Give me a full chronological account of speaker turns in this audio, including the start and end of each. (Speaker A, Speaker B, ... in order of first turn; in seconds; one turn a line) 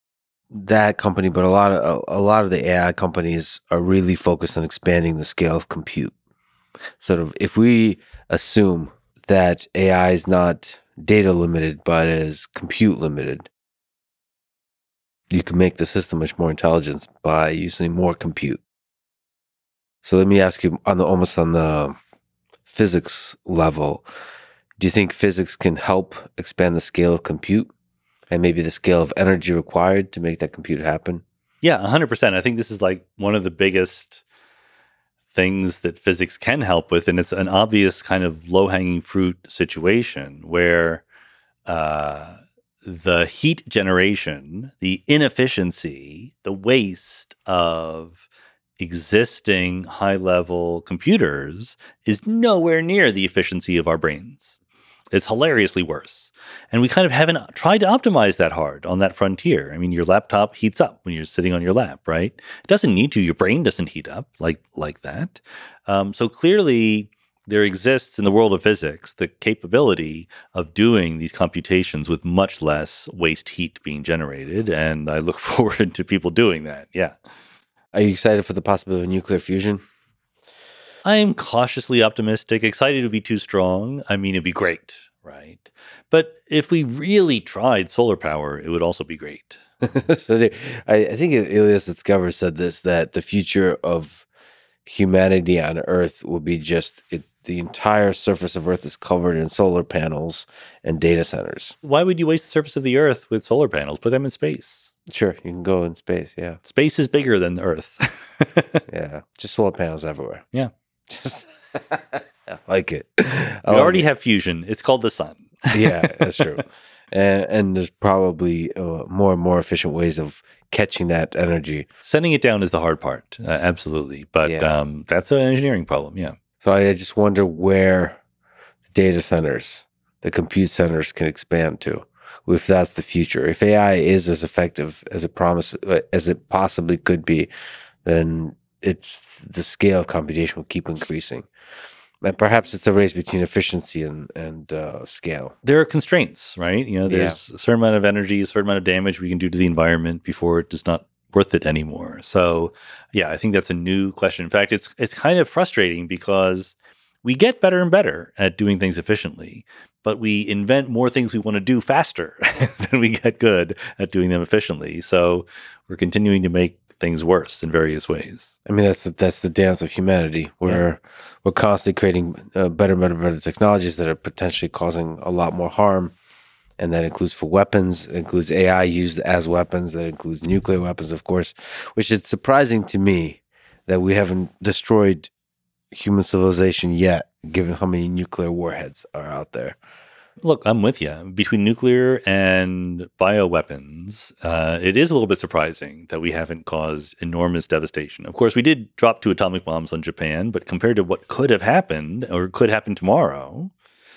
Speaker A: 0.5-6.1
Speaker A: 7.0-13.5
Speaker A: 15.3-18.6
Speaker A: 20.0-22.0
Speaker A: 22.7-24.1
Speaker A: 24.8-27.7
Speaker A: 28.3-31.2
Speaker B: 31.6-34.2
Speaker B: 35.3-41.0
Speaker B: 41.7-48.2
Speaker B: 48.8-54.5
Speaker B: 55.1-77.2
Speaker A: 77.9-79.8
Speaker B: 81.0-89.6
Speaker A: 89.9-94.3
Speaker A: 94.8-101.8
Speaker B: 101.8-104.9
Speaker A: 105.1-106.6
Speaker B: 106.6-108.8
Speaker A: 108.9-110.5
Speaker A: 111.1-114.1
Speaker B: 113.7-116.4
Speaker A: 115.7-121.8
Speaker B: 122.0-126.4
Speaker A: 124.4-124.8
Speaker A: 126.6-128.2
Speaker A: 128.9-137.5
Speaker A: 138.1-141.5
Speaker A: 142.2-145.6
Speaker B: 145.6-168.5
Speaker A: 147.1-147.4
Speaker A: 168.7-176.1
Speaker A: 176.8-185.3
Speaker A: 185.9-189.8
Speaker B: 190.4-203.7